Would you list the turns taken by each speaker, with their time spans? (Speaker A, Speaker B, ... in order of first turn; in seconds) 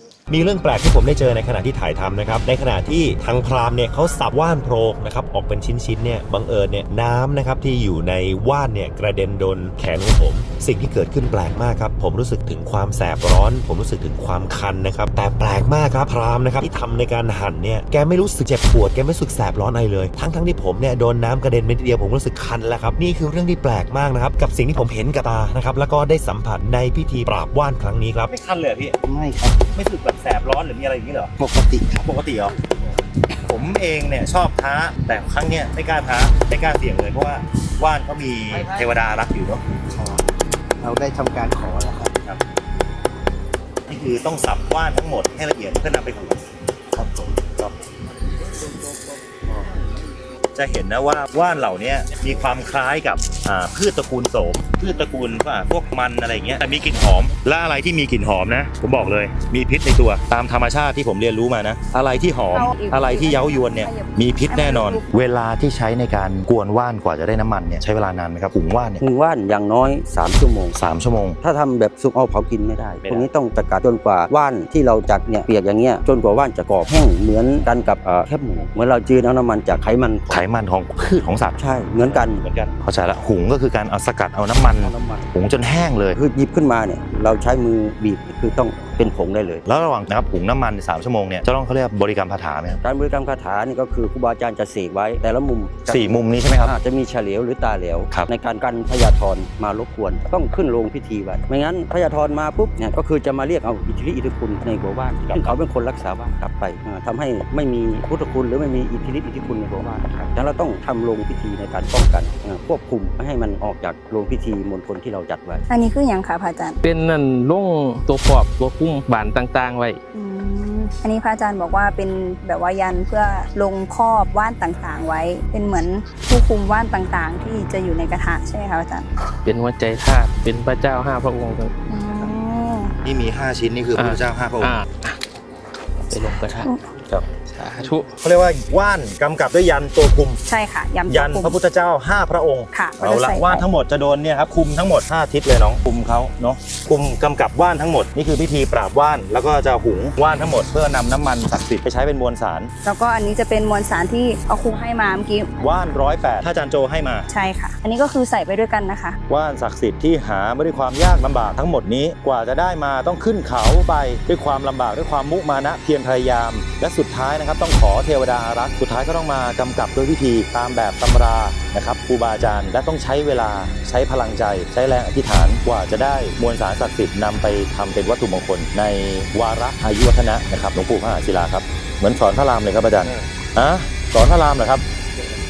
Speaker A: 0.3-28.3
Speaker B: 28.3-29.0, 29.6-32.5, 33.3-39.6, 41.5-42.4, 43.9-47.7, 50.5-69.0, 70.7-71.4, 73.0-73.3, 80.3-86.2, 89.7-92.8, 95.9-96.7, 105.2-105.6, 133.0-134.8, 138.1-140.4, 141.1-152.7, 155.6-157.3, 159.3-184.8
Speaker C: 29.1-29.6, 31.4-32.0, 40.8-41.5, 69.0-70.8, 71.4-80.4, 81.6-82.4, 84.8-85.3, 86.1-89.6, 92.8-115.6
Speaker D: 62.5-65.1, 115.7-116.8, 120.1-129.1, 131.9-132.9, 140.4-141.6, 142.7-143.7, 152.8-155.9, 157.3-159.2
Speaker E: 116.8-120.0, 129.4-131.7, 133.9-135.2, 136.0-136.7, 137.3-138.1